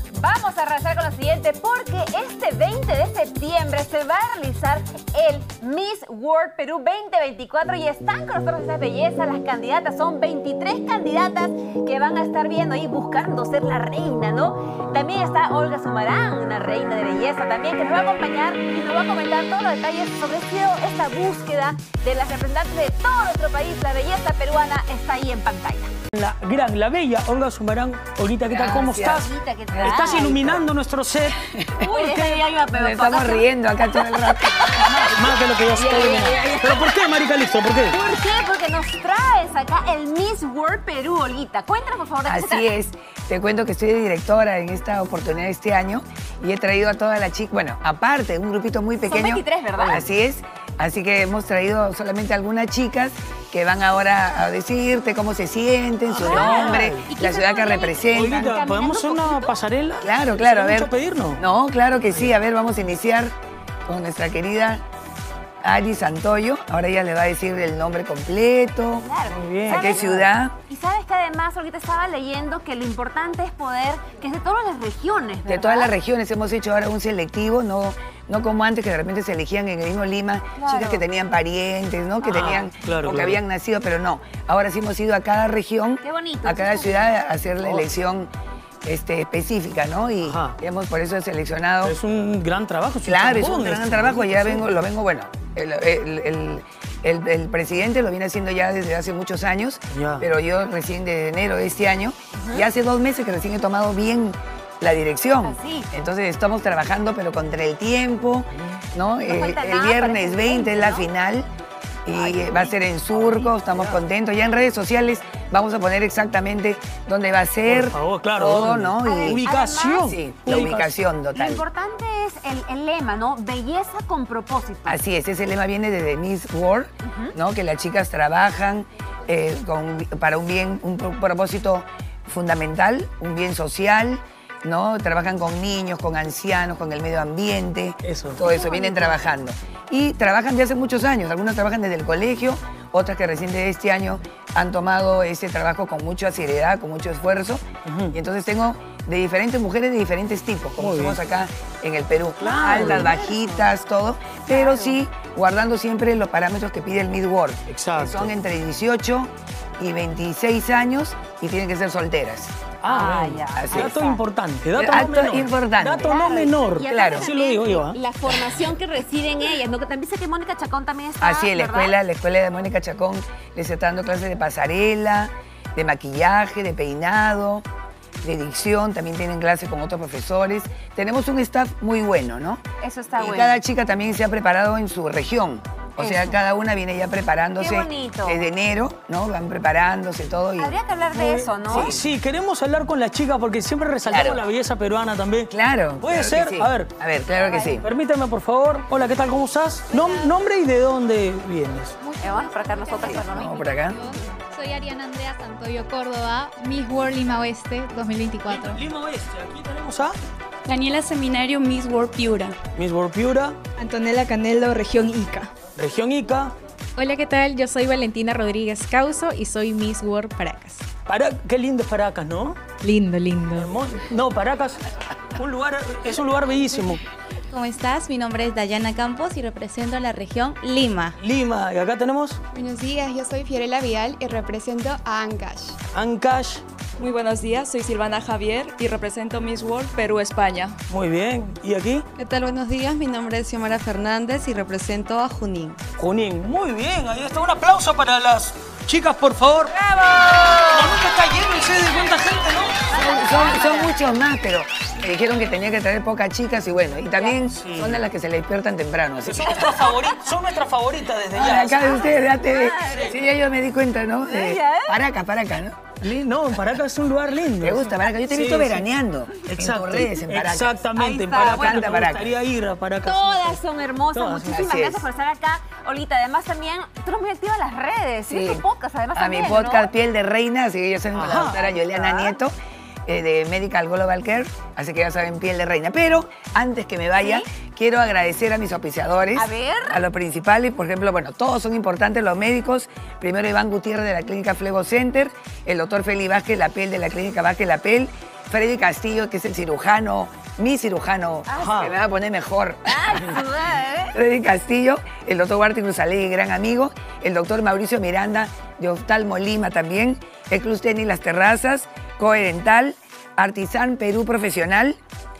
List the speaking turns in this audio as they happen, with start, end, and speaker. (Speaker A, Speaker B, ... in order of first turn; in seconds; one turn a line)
Speaker A: 0.1-25.9
Speaker B: 26.1-29.3
Speaker C: 28.5-30.6
Speaker A: 28.6-30.4
Speaker B: 29.8-31.4
Speaker C: 31.8-32.1
Speaker A: 31.8-33.5
Speaker B: 31.9-32.4
Speaker C: 32.7-34.7
Speaker B: 34.7-38.0
Speaker A: 35.8-36.8
Speaker A: 37.9-42.7
Speaker C: 42.2-58.5
Speaker A: 49.0-50.0
Speaker B: 56.2-57.0
Speaker A: 56.2-59.5
Speaker B: 58.1-61.4
Speaker C: 60.0-63.3
Speaker C: 63.9-64.8
Speaker C: 65.6-69.1
Speaker A: 69.0-75.9
Speaker B: 69.3-70.2
Speaker C: 69.7-70.5
Speaker C: 75.4-88.3
Speaker A: 80.5-81.0
Speaker A: 82.2-82.7
Speaker B: 82.7-83.4
Speaker A: 86.0-87.1
Speaker C: 88.8-92.0
Speaker B: 90.2-90.5
Speaker B: 91.8-94.6
Speaker C: 93.0-111.5
Speaker B: 99.9-100.3
Speaker A: 105.4-105.9
Speaker A: 109.2-111.1
Speaker C: 112.0-121.6
Speaker A: 112.1-112.7
Speaker B: 113.1-114.0
Speaker B: 117.6-120.9
Speaker A: 119.0-120.1
Speaker A: 121.3-125.0
Speaker C: 124.8-162.5
Speaker A: 127.0-127.3
Speaker B: 138.0-138.5
Speaker A: 138.7-139.1
Speaker B: 147.8-148.1
Speaker B: 150.8-151.2
Speaker B: 152.4-153.3
Speaker A: 154.5-155.0
Speaker B: 157.7-158.3
Speaker B: 162.8-168.0
Speaker A: 162.9-164.2
Speaker C: 163.5-164.0
Speaker C: 164.8-166.1
Speaker A: 166.0-171.9
Speaker C: 166.8-167.3
Speaker C: 171.2-177.6
Speaker C: 178.2-182.6
Speaker A: 182.8-183.6
Speaker C: 183.2-190.7
Speaker A: 186.0-186.3
Speaker A: 187.6-188.4
Speaker A: 190.6-191.9
Speaker B: 191.1-196.9
Speaker C: 191.7-192.0
Speaker C: 194.1-194.4
Speaker C: 195.5-197.8
Speaker B: 197.8-201.9
Speaker D: 202.0-208.8
Speaker A: 202.2-203.6
Speaker C: 203.0-204.0
Speaker B: 208.5-210.2
Speaker D: 210.7-212.6
Speaker B: 212.8-213.6
Speaker D: 213.8-215.5
Speaker B: 215.8-216.5
Speaker D: 216.9-220.8
Speaker B: 221.1-222.6
Speaker D: 222.8-223.7
Speaker B: 223.5-224.8
Speaker B: 225.3-227.0
Speaker D: 227.5-231.2
Speaker B: 231.2-232.4
Speaker D: 232.5-235.8
Speaker B: 235.9-236.6
Speaker B: 240.9-242.0
Speaker B: 246.0-253.6
Speaker A: 252.9-253.9
Speaker C: 253.0-259.7
Speaker B: 257.6-258.0
Speaker B: 259.2-262.1
Speaker C: 261.4-265.8
Speaker A: 262.0-263.2
Speaker A: 264.2-264.9
Speaker B: 266.0-268.9
Speaker C: 267.6-272.3
Speaker B: 269.4-273.6
Speaker A: 271.3-271.9
Speaker A: 273.0-279.9
Speaker B: 274.1-274.6
Speaker C: 274.4-275.1
Speaker C: 278.3-278.6
Speaker C: 279.1-282.5
Speaker B: 281.1-281.6
Speaker A: 281.5-282.4
Speaker C: 283.1-303.2
Speaker A: 287.2-287.4
Speaker A: 289.3-290.0
Speaker B: 301.6-301.9
Speaker A: 302.9-304.1
Speaker C: 304.1-315.0